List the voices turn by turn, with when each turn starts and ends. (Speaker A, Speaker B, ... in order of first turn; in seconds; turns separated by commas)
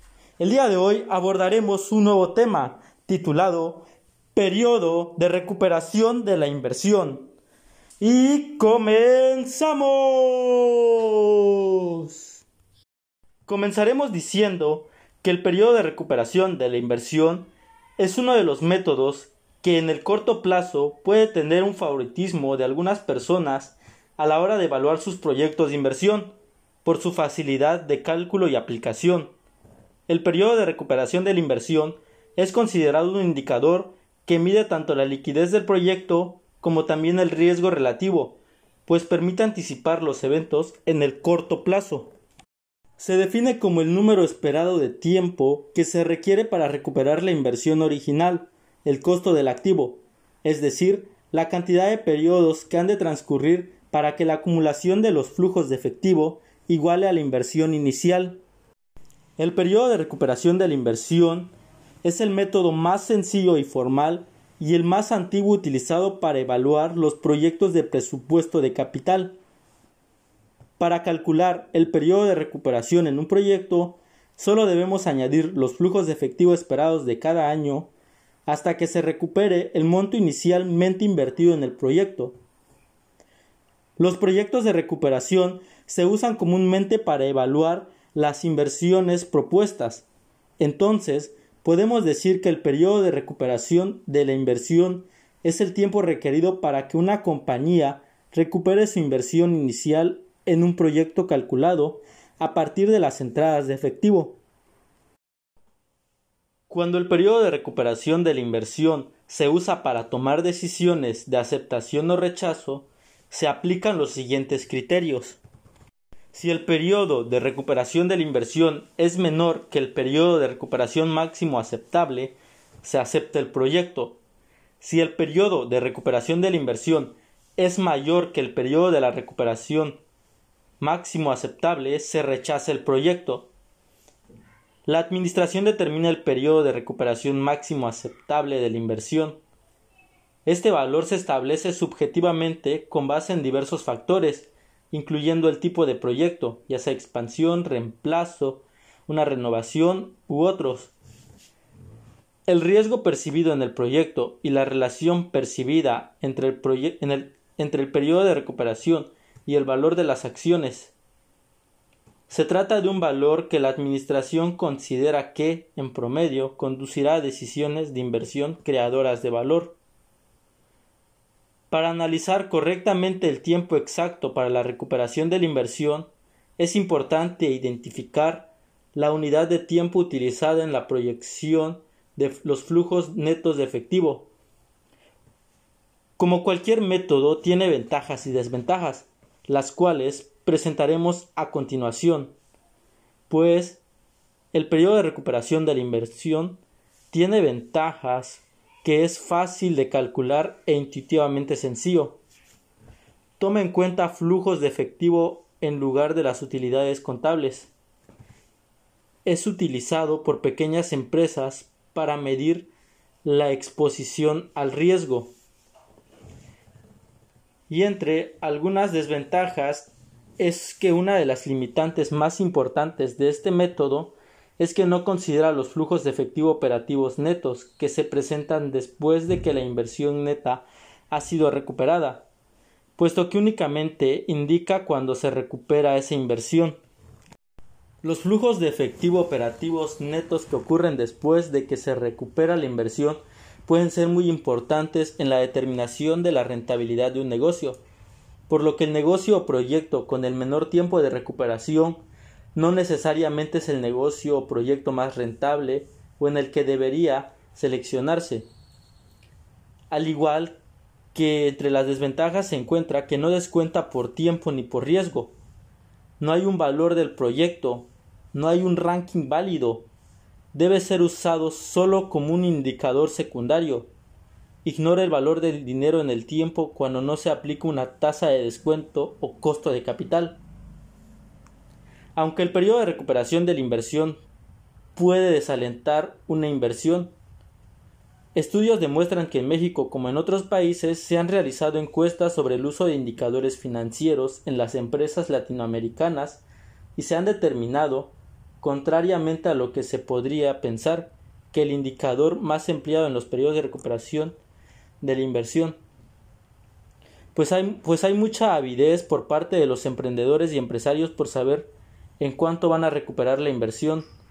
Speaker A: 0.4-7.3, Speaker A: 8.0-12.4, Speaker A: 13.5-29.3, Speaker A: 30.1-42.1, Speaker A: 43.0-58.4, Speaker A: 59.4-69.4, Speaker A: 70.8-77.9, Speaker A: 78.5-82.4, Speaker A: 84.0-90.1, Speaker A: 90.6-104.4, Speaker A: 106.7-115.4, Speaker A: 116.3-124.2, Speaker A: 124.8-130.0, Speaker A: 130.8-133.5, Speaker A: 134.9-139.4, Speaker A: 140.5-150.9, Speaker A: 152.5-160.9, Speaker A: 162.3-169.8, Speaker A: 171.7-184.3, Speaker A: 186.2-192.3, Speaker A: 193.3-193.8, Speaker A: 194.5-196.6, Speaker A: 197.1-202.2, Speaker A: 203.4-207.7, Speaker A: 209.3-212.7, Speaker A: 213.2-215.3, Speaker A: 217.7-232.3, Speaker A: 233.0-236.8, Speaker A: 238.0-247.8, Speaker A: 248.5-258.5, Speaker A: 259.9-260.6, Speaker A: 261.1-265.3, Speaker A: 266.2-269.9, Speaker A: 270.5-273.9, Speaker A: 274.6-280.4, Speaker A: 282.2-284.2, Speaker A: 284.9-287.1, Speaker A: 288.4-296.4, Speaker A: 297.0-304.4, Speaker A: 305.0-305.8, Speaker A: 307.3-314.1